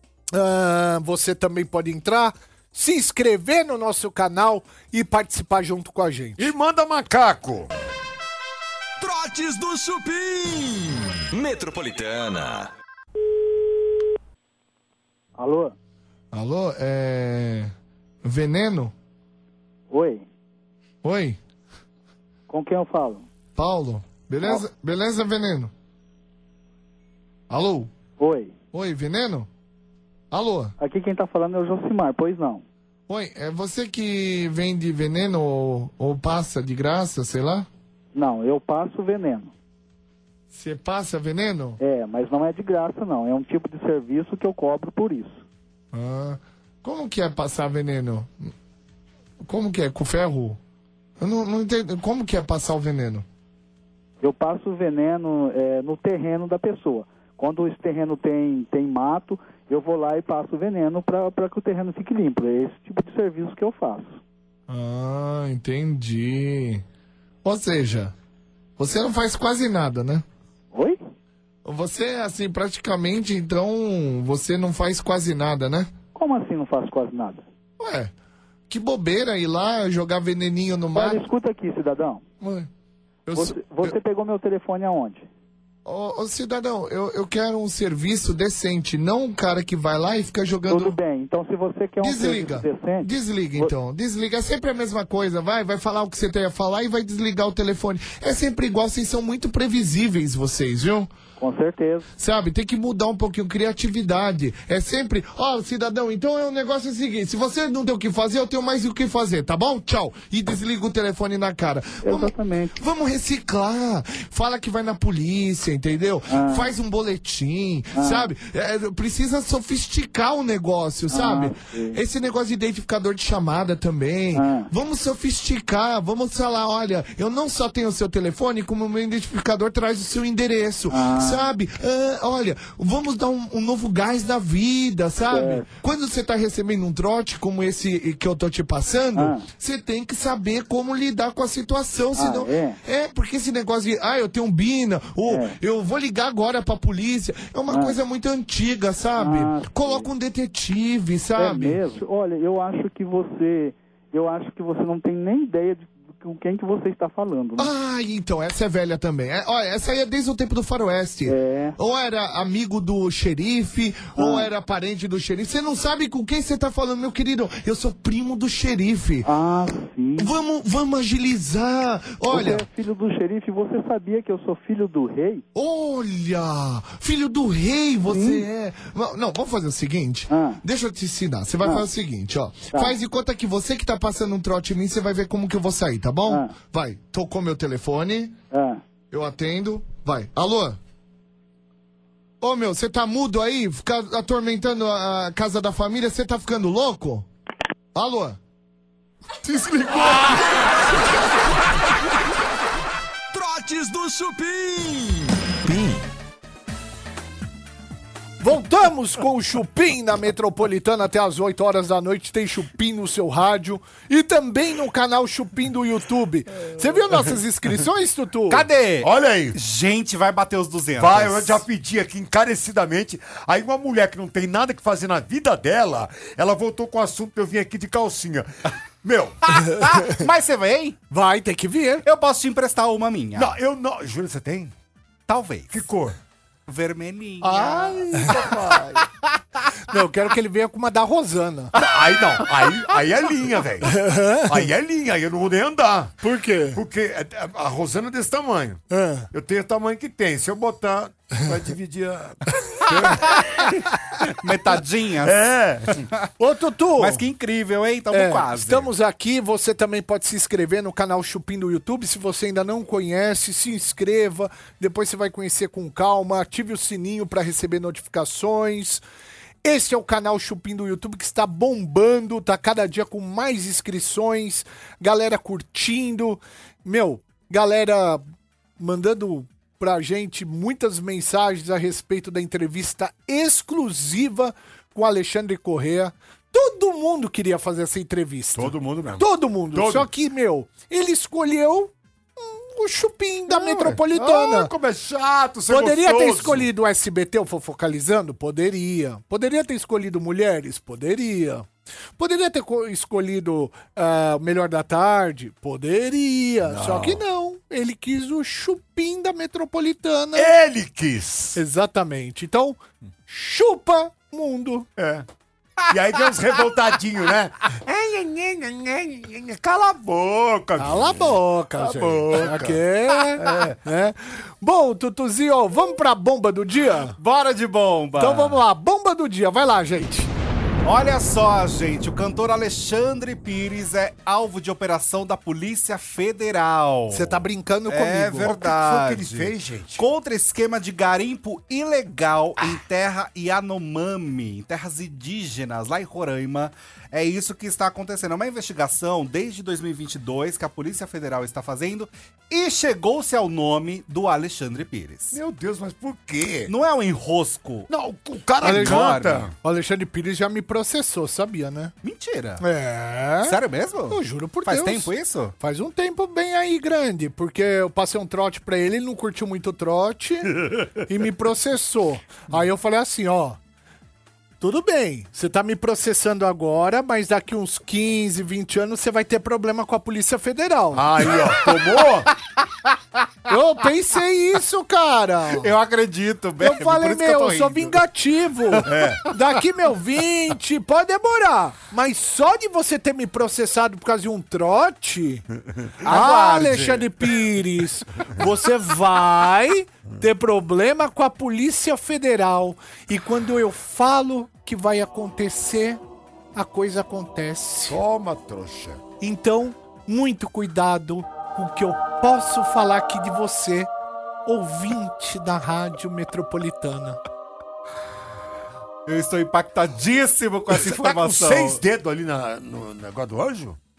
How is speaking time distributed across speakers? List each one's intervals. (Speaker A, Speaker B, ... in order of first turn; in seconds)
Speaker A: 0.3-6.5, 208.4-218.7, 231.1-232.1, 239.9-241.7, 243.9-244.7, 246.2-246.8, 248.9-249.3, 256.4-257.2, 258.1-269.0, 269.6-278.2, 278.8-294.7, 295.7-310.5, 311.6-314.9, 320.8-327.2, 328.2-330.3, 337.1-338.5, 358.6-359.1, 359.6-361.9, 362.6-363.6, 364.1-373.6, 374.6-381.1, 383.5-385.7, 386.6-395.4, 396.1-406.0, 406.6-408.0, 409.2-413.9, 414.5-417.2
Speaker B: 6.4-7.7, 199.4-200.4, 219.0-219.6, 221.0-228.5, 229.0-229.4, 233.4-234.7, 235.7-236.2, 237.4-239.1, 241.8-246.2, 246.7-254.4, 255.2-256.1, 288.6-290.1, 293.5-296.7, 306.6-307.2, 310.4-311.6, 315.0-315.3, 315.9-322.8, 323.4-323.8, 338.4-340.0, 355.3-356.7, 357.9-359.5, 380.9-382.3, 388.9-389.2, 407.9-409.0, 420.7-423.8
Speaker C: 9.0-12.7, 203.3-206.0
Speaker D: 15.4-15.8, 19.9-20.3, 22.5-23.2, 28.2-28.5, 30.8-32.6, 38.1-39.5, 41.8-45.4, 54.2-64.2, 70.7-71.0, 76.2-77.4, 81.0-82.2, 83.3-85.3, 90.7-93.7, 101.4-102.1, 112.0-112.8, 116.3-116.7, 118.0-118.3, 121.1-122.0, 124.3-124.7, 130.9-131.4, 135.3-135.7, 139.2-139.4, 142.2-142.8, 145.3-145.6, 147.7-147.9, 149.2-150.1, 151.4-157.7, 161.3-161.8, 164.2-164.5, 169.2-170.3, 172.3-175.4, 178.1-178.5, 180.3-180.6, 188.5-188.8
Speaker E: 16.3-17.7, 18.2-18.9, 21.0-21.4, 23.6-25.7, 27.5-27.9, 28.7-29.5, 30.3-30.7, 33.1-37.7, 40.5-41.8, 45.9-48.5, 49.4-50.6, 51.2-53.2, 64.7-66.8, 67.4-68.1, 68.8-70.2, 71.7-75.9, 77.8-78.1, 78.7-81.2, 83.3-83.9, 85.9-91.0, 92.0-101.1, 102.2-151.8, 157.6-169.3, 170.2-172.7, 175.6-188.4, 189.1-190.8, 192.4-197.3, 197.9-198.4
Speaker F: 218.5-221.6, 229.6-231.0, 232.1-233.6, 235.3-235.9, 236.7-238.5, 254.4-255.4, 256.0-256.3, 257.0-258.9, 327.2-328.6, 330.8-355.4, 356.7-357.9, 358.6-359.5, 362.0-362.6, 363.4-365.6, 385.6-388.0, 388.9-389.3, 396.0-397.3, 419.1-421.8